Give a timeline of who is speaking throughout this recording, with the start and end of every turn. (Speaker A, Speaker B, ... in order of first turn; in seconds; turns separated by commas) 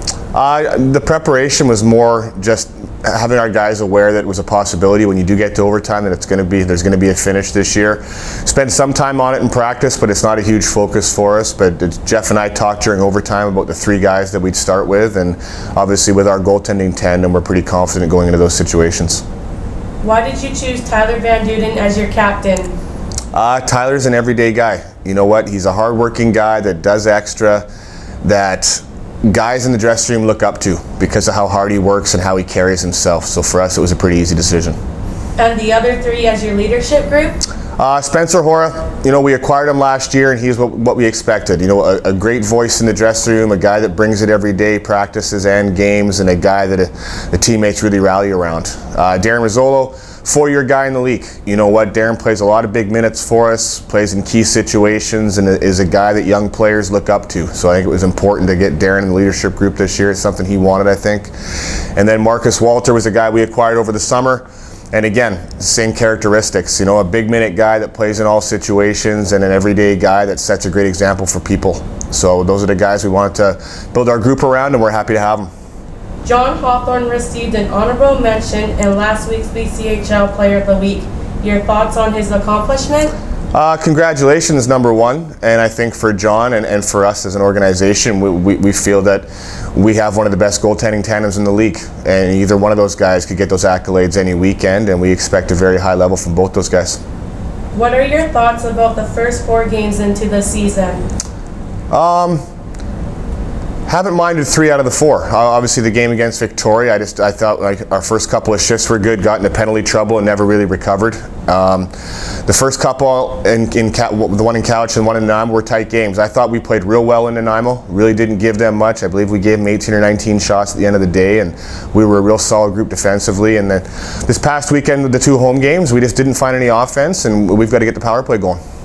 Speaker A: 0.3-19.2, Speaker B: 20.0-22.7, Speaker A: 23.3-27.6, Speaker A: 28.2-34.8, Speaker B: 35.4-37.4, Speaker A: 37.8-75.5, Speaker B: 76.2-83.1, Speaker A: 83.5-97.0, Speaker B: 97.7-101.0, Speaker A: 101.9-102.4, Speaker A: 103.9-111.9, Speaker A: 112.4-128.6